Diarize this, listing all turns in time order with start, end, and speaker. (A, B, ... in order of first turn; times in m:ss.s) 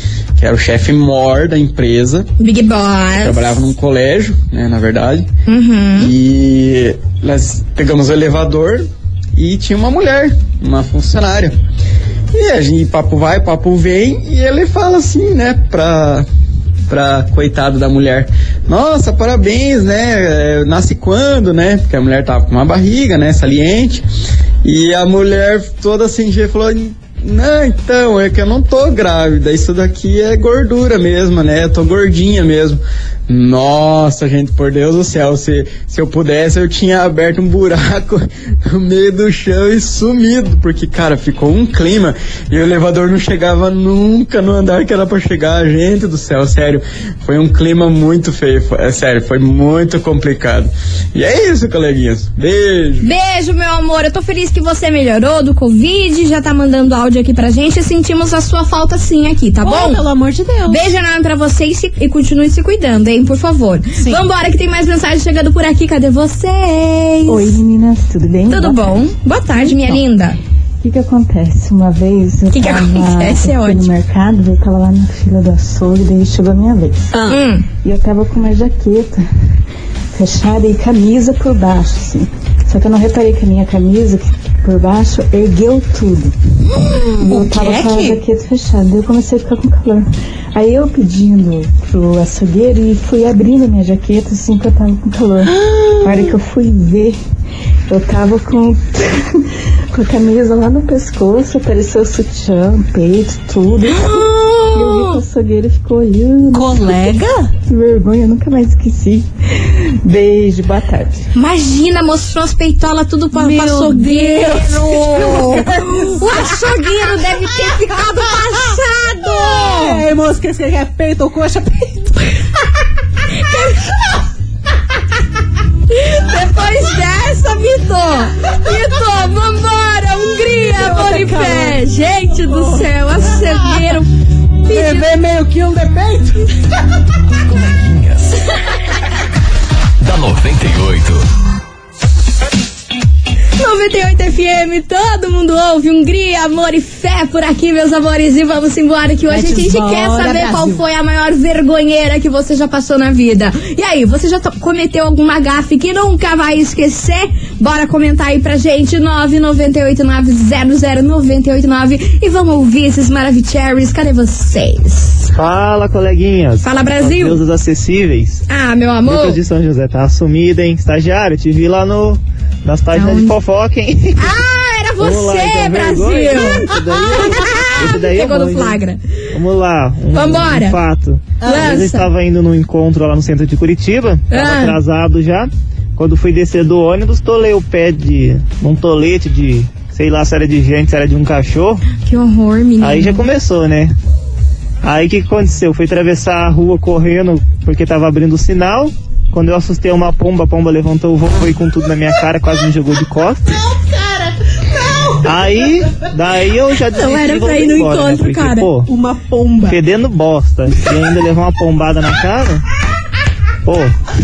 0:00.4-0:02.3 A
0:02.4-0:03.6 B
0:03.2-0:05.3 A
0:05.5-0:06.1 B
0:06.0-0:11.6 A
0:12.3-0:16.3 A
0:16.9-0:24.0 A
0:24.6-0:53.1 A
0:53.0-1:00.0 B
0:59.6-1:00.9 C
1:00.7-1:07.6 B
1:04.0-1:04.2 C
1:07.3-1:09.1 D
1:08.5-1:10.4 B
1:09.7-1:10.0 D
1:10.8-1:17.1 D
1:12.5-1:13.9 B
1:17.1-1:17.4 C
1:17.3-1:17.7 B
1:17.8-1:19.2 D
1:20.1-1:26.3 D
1:26.8-1:28.2 C
1:27.2-1:37.2 D
1:35.4-1:36.3 C
1:37.9-1:51.2 D
1:43.9-1:45.2 B
1:46.5-1:47.5 C
1:51.3-2:00.0 B
1:53.3-2:02.8 C
2:03.3-2:03.8 B
2:05.9-2:14.1 B
2:10.7-2:13.8 C
2:14.7-2:15.1 B
2:14.7-2:16.5 C
2:17.4-2:18.4 E
2:20.0-2:21.2 E
2:23.6-2:45.3 B
2:29.3-2:30.8 C
2:45.3-2:48.4 F
2:46.6-2:47.4 B
2:48.5-2:49.4 B
2:49.0-2:54.4 F
2:52.9-2:53.4 B
2:54.2-2:59.0 B
2:55.0-2:58.8 F
2:56.7-2:57.7 C
2:59.3-3:11.8 F
3:00.1-3:00.8 B
3:01.4-3:01.8 C
3:01.4-3:02.1 B
3:04.3-3:04.8 B
3:12.0-3:13.3 B
3:12.8-3:14.0 F
3:14.8-3:23.6 F
3:23.4-3:26.1 C
3:25.2-3:28.9 F
3:26.9-3:28.7 B
3:28.9-3:29.8 C
3:29.7-3:32.6 F
3:33.6-3:33.9 F